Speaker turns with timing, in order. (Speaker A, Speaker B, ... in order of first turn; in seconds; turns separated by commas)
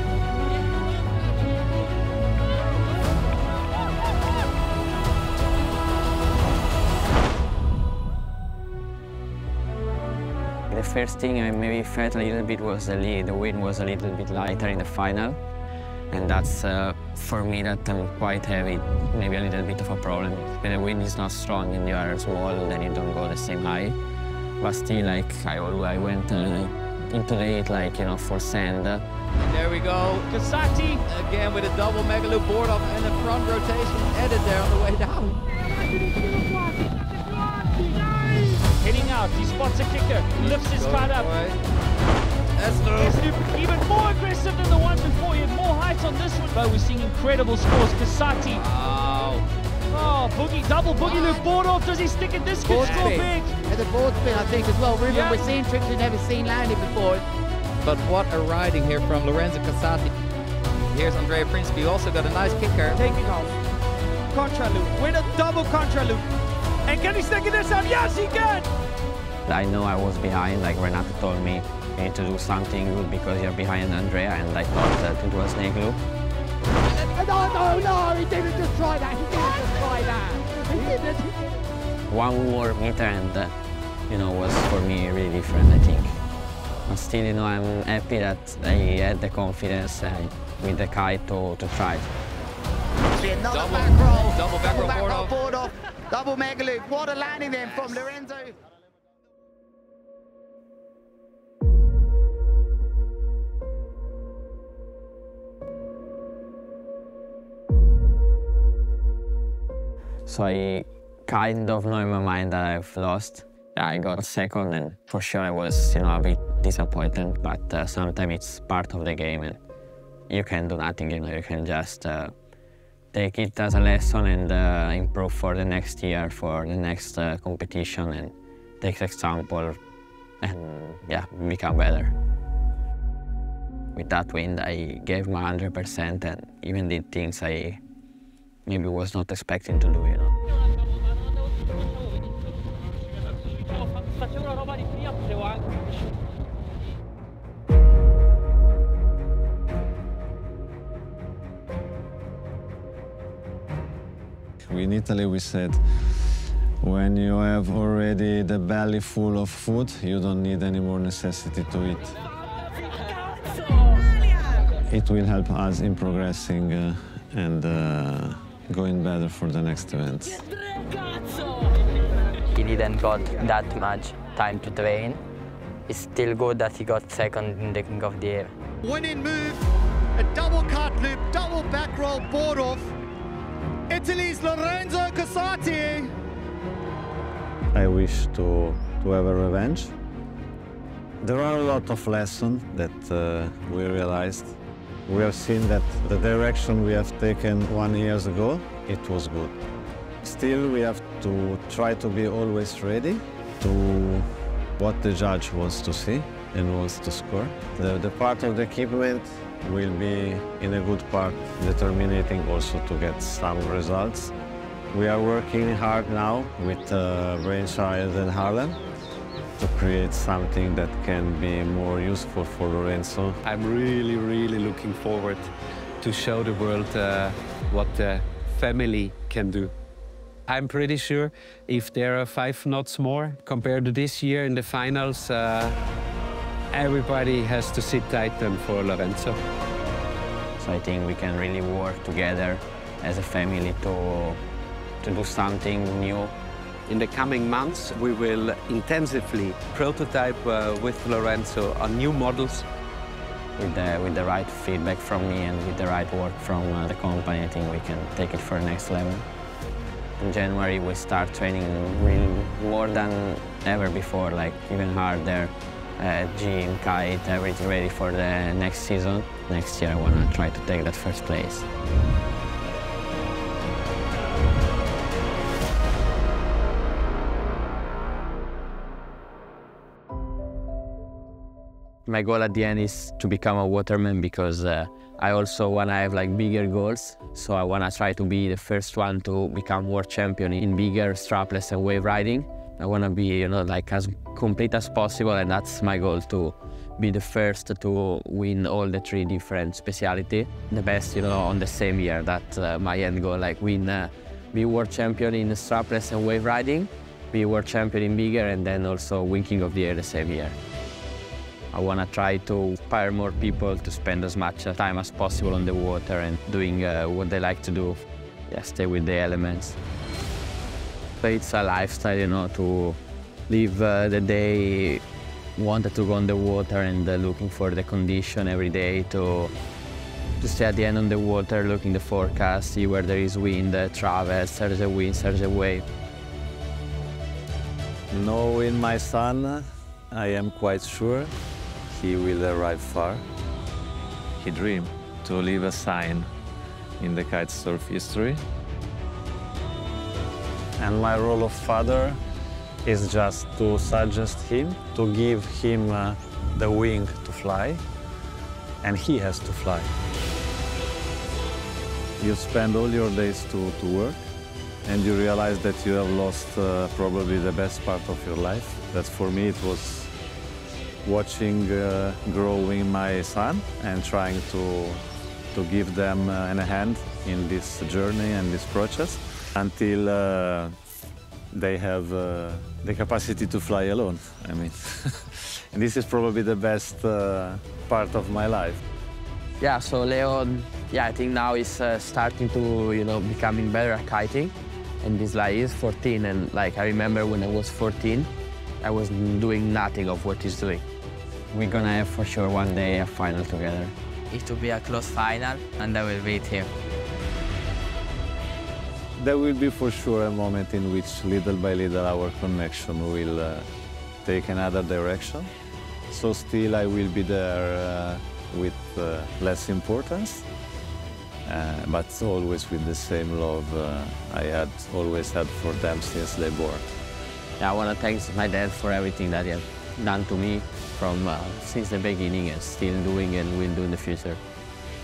Speaker A: 10.7-15.4, Speaker A: 16.1-24.0, Speaker A: 24.6-29.0, Speaker B: 29.4-30.3, Speaker C: 30.3-31.0, Speaker B: 31.1-35.4, Speaker B: 36.0-38.6, Speaker C: 38.7-41.3, Speaker B: 40.4-41.6, Speaker B: 42.6-43.4, Speaker C: 43.0-48.7, Speaker B: 48.5-49.5, Speaker C: 49.9-53.5, Speaker B: 51.1-51.4, Speaker B: 52.7-53.3, Speaker D: 52.7-56.9, Speaker C: 55.1-55.5, Speaker B: 56.9-57.2, Speaker B: 57.8-60.1, Speaker B: 60.9-63.0, Speaker C: 62.9-63.5, Speaker C: 64.3-65.0, Speaker B: 64.9-66.2, Speaker C: 66.9-68.7, Speaker A: 69.5-76.0, Speaker D: 77.2-81.3, Speaker A: 82.1-83.5, Speaker A: 84.1-86.2, Speaker A: 86.9-92.1, Speaker D: 93.2-98.6, Speaker B: 93.5-95.3, Speaker B: 97.6-98.1, Speaker A: 110.3-119.6, Speaker A: 120.3-122.3, Speaker A: 123.1-129.8, Speaker A: 130.4-132.1, Speaker A: 134.0-137.8, Speaker A: 138.7-140.3, Speaker E: 154.6-162.2, Speaker E: 164.9-170.4, Speaker F: 172.5-175.2, Speaker F: 175.9-178.5, Speaker G: 178.8-182.9, Speaker G: 183.9-186.1, Speaker E: 187.7-189.9, Speaker E: 191.2-199.6, Speaker E: 200.2-214.3, Speaker E: 214.9-218.8, Speaker E: 219.6-223.4, Speaker H: 223.4-229.7, Speaker H: 230.5-235.8, Speaker H: 236.7-239.4, Speaker A: 240.6-244.4, Speaker A: 245.0-246.3, Speaker H: 246.9-252.7, Speaker A: 253.6-259.2, Speaker A: 260.2-271.7, Speaker A: 282.1-310.6, Speaker A: 311.7-319.8, Speaker A: 321.2-325.0, Speaker A: 325.6-329.5, Speaker A: 330.4-335.9, Speaker E: 338.1-341.4, Speaker E: 341.9-343.2, Speaker E: 344.4-346.3, Speaker E: 347.0-348.4, Speaker E: 350.8-352.2, Speaker E: 352.8-357.8, Speaker E: 358.8-359.9, Speaker E: 362.2-364.2, Speaker E: 364.9-370.1, Speaker E: 371.0-380.8, Speaker E: 381.5-388.8, Speaker A: 389.6-398.3, Speaker A: 398.8-400.8, Speaker A: 401.5-403.9, Speaker F: 404.3-406.7, Speaker E: 409.2-413.7, Speaker E: 414.2-415.5, Speaker E: 416.1-420.5, Speaker E: 421.4-426.9, Speaker A: 427.6-434.4